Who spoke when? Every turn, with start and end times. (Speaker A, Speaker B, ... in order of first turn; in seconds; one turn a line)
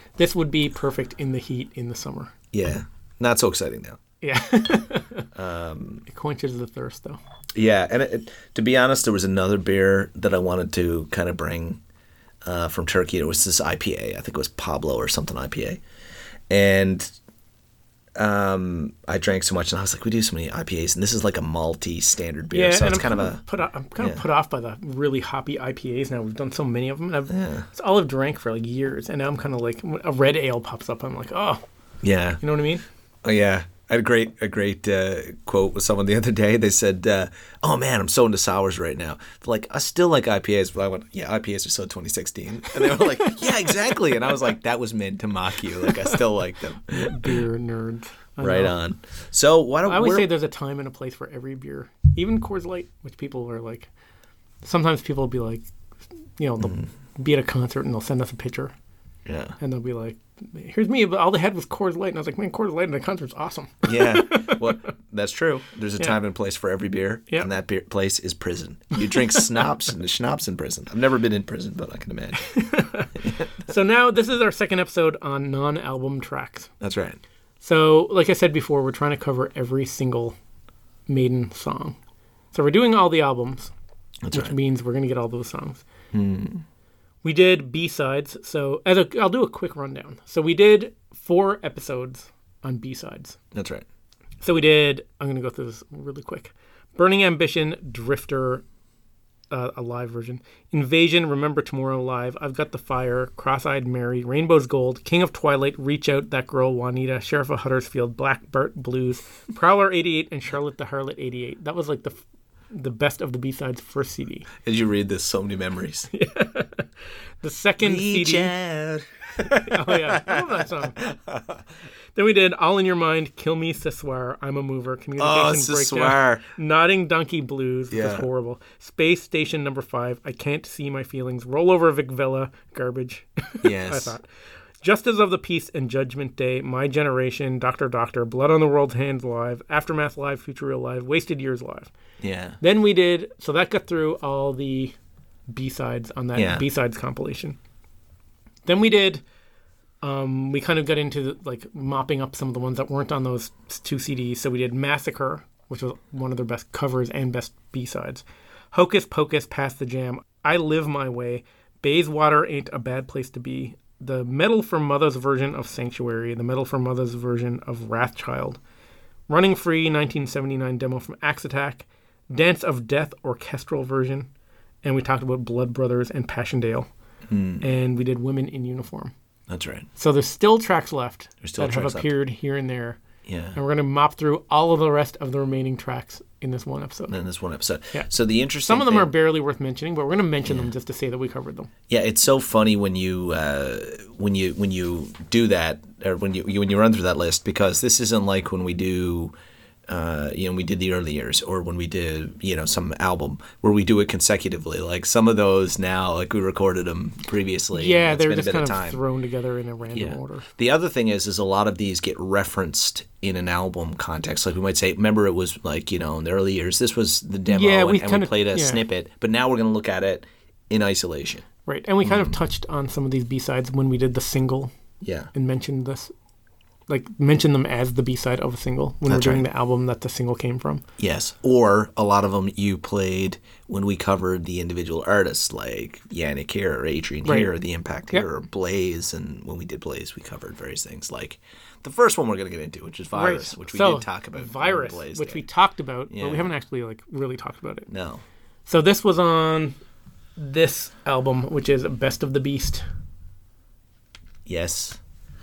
Speaker A: 0.2-2.3
Speaker B: 2.5-4.0
Speaker A: 4.2-5.3
Speaker B: 5.3-6.0
Speaker A: 6.1-7.2
Speaker B: 7.5-11.8
Speaker B: 12.4-15.8
Speaker B: 16.5-17.1
Speaker B: 18.2-23.4
Speaker A: 22.5-31.6
Speaker B: 24.0-24.2
Speaker B: 27.3-27.7
Speaker B: 32.0-32.4
Speaker A: 32.4-32.9
Speaker B: 33.2-47.4
Speaker A: 42.9-43.4
Speaker A: 45.9-46.2
Speaker A: 46.9-48.7
Speaker B: 48.4-50.3
Speaker A: 49.9-53.9
Speaker A: 54.6-55.6
Speaker A: 56.4-58.7
Speaker B: 56.6-56.9
Speaker B: 59.3-59.6
Speaker A: 59.6-64.7
Speaker B: 63.9-72.5
Speaker A: 72.4-76.7
Speaker B: 73.2-73.5
Speaker B: 76.8-77.2
Speaker A: 77.6-80.4
Speaker A: 81.1-82.0
Speaker A: 82.5-83.7
Speaker B: 84.2-84.5
Speaker A: 84.3-85.8
Speaker B: 86.1-86.7
Speaker A: 87.2-93.4
Speaker B: 93.5-93.8
Speaker A: 94.4-98.6
Speaker A: 99.5-114.5
Speaker B: 114.6-116.1
Speaker A: 116.1-116.9
Speaker A: 117.4-118.5
Speaker B: 117.8-121.6
Speaker A: 119.4-121.0
Speaker A: 122.2-134.2
Speaker B: 125.2-126.4
Speaker B: 127.9-128.3
Speaker B: 133.6-134.2
Speaker A: 134.8-141.9
Speaker B: 142.2-142.6
Speaker A: 142.6-145.0
Speaker A: 145.5-147.6
Speaker B: 146.3-146.6
Speaker A: 148.7-149.2
Speaker A: 150.0-168.6
Speaker A: 169.3-174.3
Speaker A: 174.8-176.9
Speaker B: 177.3-177.7
Speaker A: 177.6-179.1
Speaker B: 179.5-179.9
Speaker A: 180.0-183.0
Speaker B: 181.4-182.1
Speaker B: 183.3-183.6
Speaker A: 183.6-187.2
Speaker B: 187.1-189.1
Speaker A: 188.6-191.7
Speaker B: 190.4-190.7
Speaker B: 191.9-199.3
Speaker B: 199.9-209.0
Speaker A: 207.7-210.5
Speaker B: 209.9-221.4
Speaker A: 217.5-218.8
Speaker A: 221.7-224.7
Speaker B: 222.0-222.3
Speaker B: 225.0-225.3
Speaker A: 225.3-226.1
Speaker A: 226.9-230.8
Speaker B: 229.1-229.5
Speaker B: 231.0-245.4
Speaker A: 237.2-237.5
Speaker A: 243.1-247.9
Speaker B: 246.1-246.5
Speaker B: 247.9-248.2
Speaker A: 248.7-249.8
Speaker A: 250.4-252.8
Speaker B: 254.5-255.0